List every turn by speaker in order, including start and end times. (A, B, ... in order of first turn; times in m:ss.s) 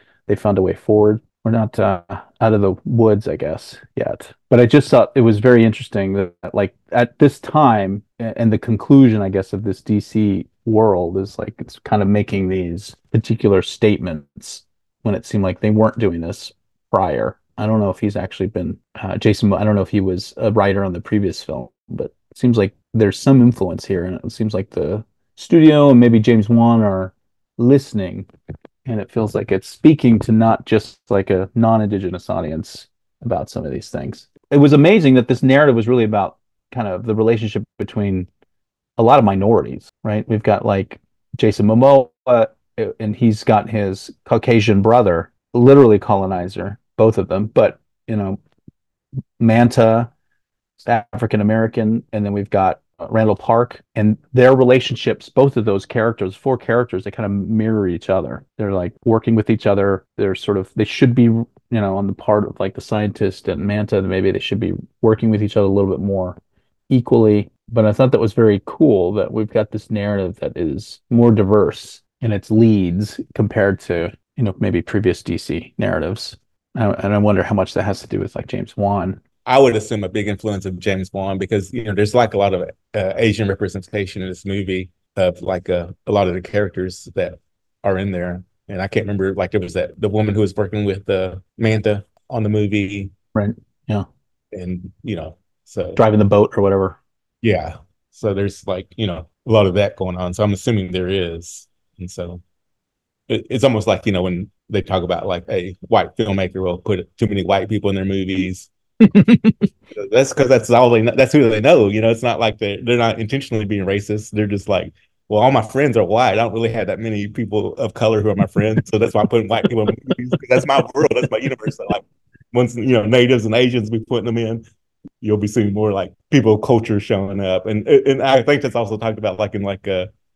0:00.3-0:28.3 A
0:28.8-0:38.3 A
0:39.0-0:48.4 A
0:49.4-0:50.1 A
0:50.8-1:06.4 A
1:06.9-1:19.2 A
1:19.4-1:33.1 B
1:33.3-1:34.1 A
1:34.5-1:36.0 B
1:36.0-1:37.0 A
1:37.4-1:42.4 B
1:43.3-1:48.7 B
1:49.0-1:49.7 A
1:49.9-2:04.6 B
2:05.2-2:10.1 B